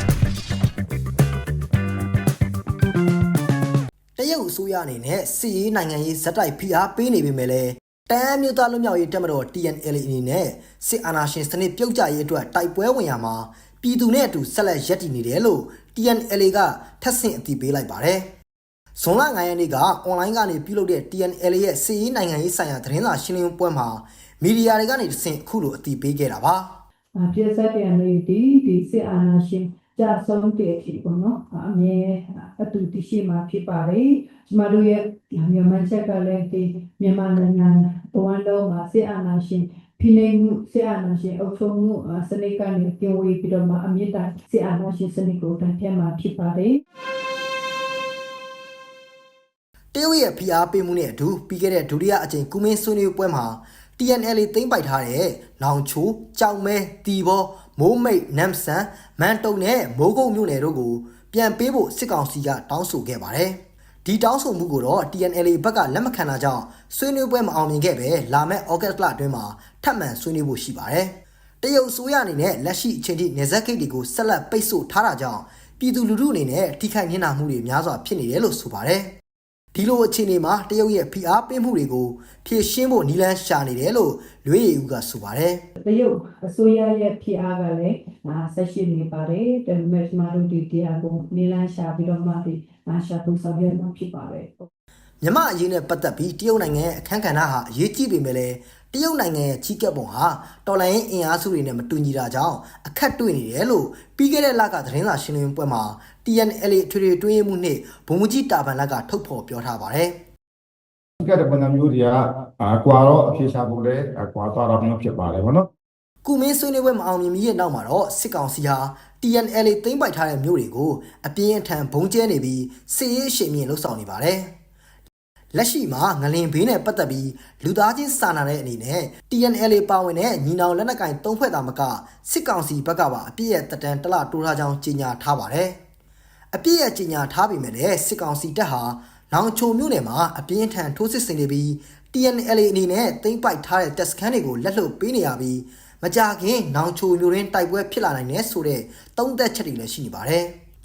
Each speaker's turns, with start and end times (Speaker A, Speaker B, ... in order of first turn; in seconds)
Speaker A: 4.2-18.3, 18.9-26.8, 49.9-79.2, 79.7-85.7, 95.2-110.2, 116.2-124.6, 125.5-135.8, 136.5-150.6
Speaker B: 27.2-46.8, 85.8-94.7
Speaker C: 111.2-115.7